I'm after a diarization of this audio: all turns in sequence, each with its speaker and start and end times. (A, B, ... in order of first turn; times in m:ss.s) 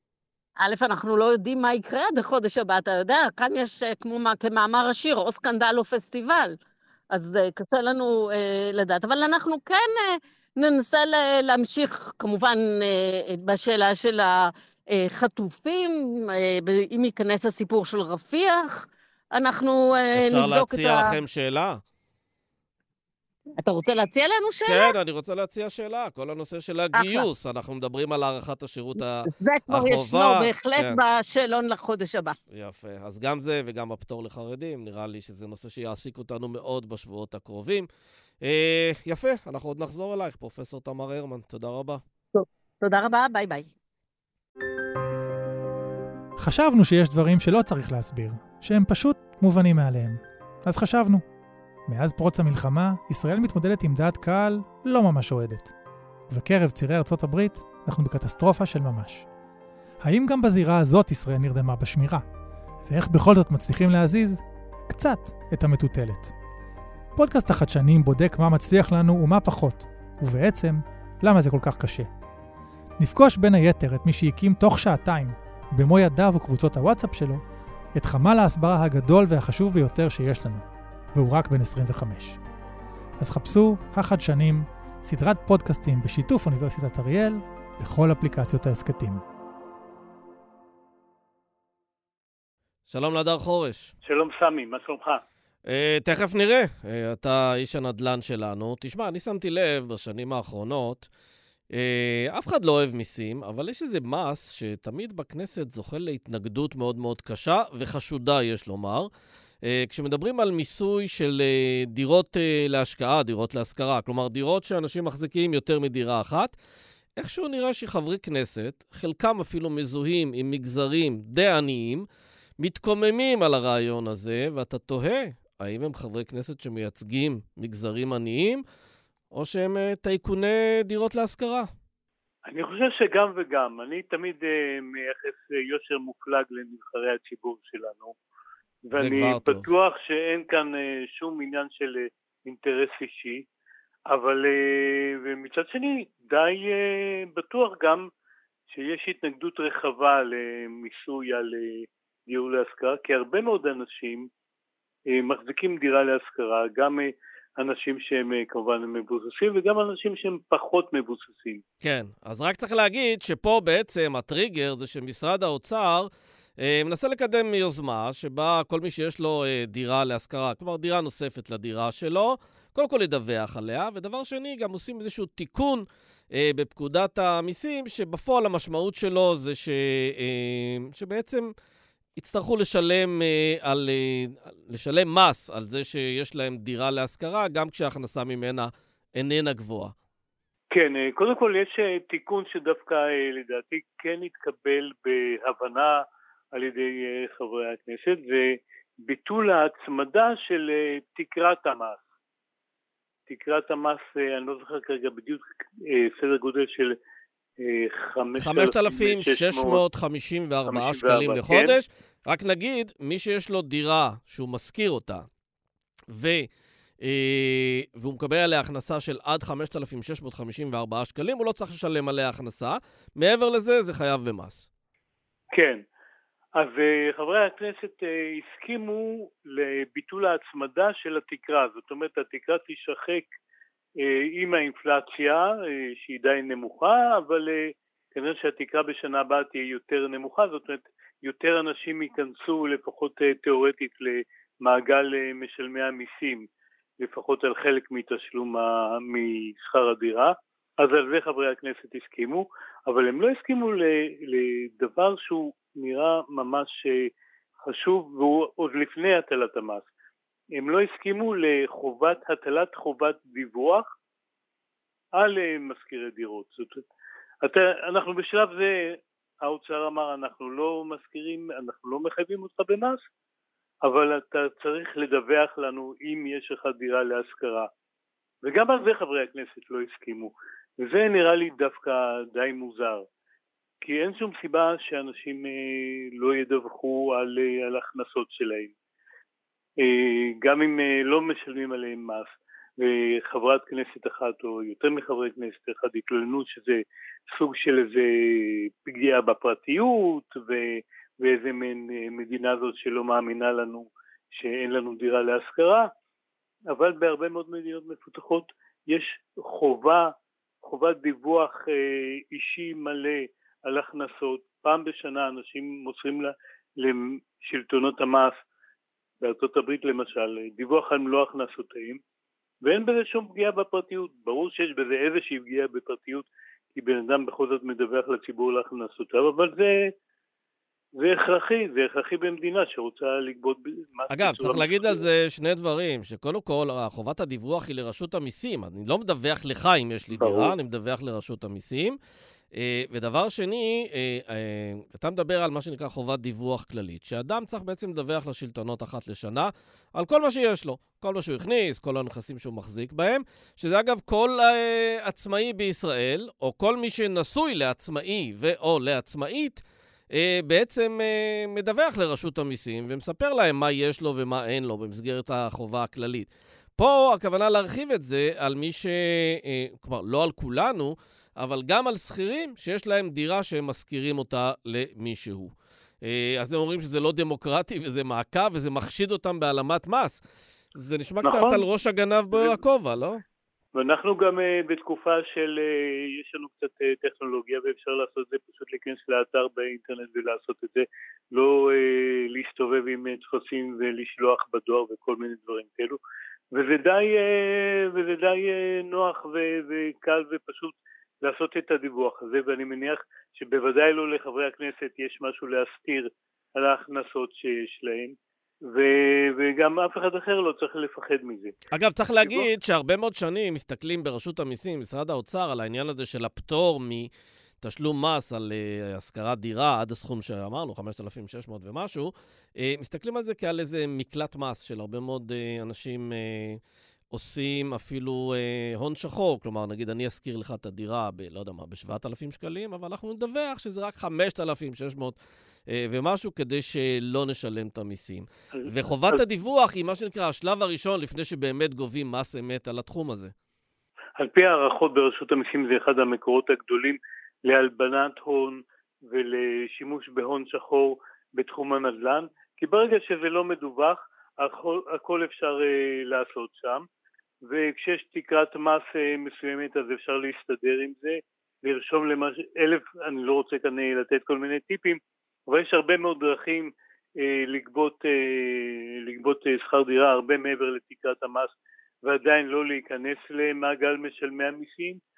0:00.6-0:06.6 A
0:07.1-0:21.2 A
0:20.1-0:21.8 B
0:23.6-0:24.9 A
0:24.6-0:31.0 B
0:26.9-0:27.3 A
0:29.2-0:32.4 A
0:32.5-0:37.9 B
0:38.4-0:42.0 B
0:42.3-0:43.7 A
0:46.4-0:51.2 C
0:51.9-0:55.7 C
0:56.3-0:59.2 C
1:00.0-1:02.2 C
1:02.9-1:06.3 C
1:07.1-1:12.1 C
1:13.0-1:17.4 C
1:17.9-1:22.4 C
1:23.2-1:29.2 C
1:32.9-1:33.9 B
1:34.0-1:35.2 D
1:35.6-1:41.1 B
1:41.7-1:49.1 B
1:49.6-1:56.5 B
1:57.2-2:02.1 B
2:02.6-2:08.6 B
2:09.3-2:11.7 B
2:12.5-2:18.1 D
2:18.9-2:23.4 D
2:18.9-2:19.7 B
2:24.1-2:28.1 D
2:28.7-2:34.3 D
2:35.1-2:41.6 D
2:41.8-3:01.5 B
3:02.2-3:09.9 B
3:10.7-3:16.0 D
3:16.5-3:22.0 D
3:23.3-3:26.9 D
3:27.6-3:29.8 D
3:28.4-3:35.2 B
3:30.7-3:31.8 D
3:36.1-3:36.5 B
3:37.0-3:44.6 B
3:45.5-3:45.8 D
3:46.6-3:53.3 D
3:54.0-4:06.4 D
4:07.0-4:17.1 D
4:17.6-4:19.8 D
4:20.5-4:23.8 D
4:25.2-4:26.8 D
4:27.4-4:33.0 D
4:33.8-4:37.7 D
4:38.4-4:43.0 D
4:43.8-4:48.7 D
4:49.8-5:05.9 D
5:06.7-5:18.3 D
5:19.2-5:22.0 D
5:22.6-5:29.9 D
5:31.0-5:35.0 D
5:34.1-5:42.0 B
5:40.2-5:40.5 D
5:42.5-6:20.2 B
6:20.7-6:23.2 B
6:21.2-6:21.6 D
6:22.3-6:22.6 D
6:23.7-6:36.0 D
6:36.5-6:48.1 D
6:48.7-6:51.6 D
6:51.7-6:57.1 B
6:52.2-6:52.5 D
6:57.6-7:23.3 B
7:18.5-7:19.2 D
7:24.2-7:36.8 D
7:37.4-7:51.5 D
7:52.0-7:55.0 D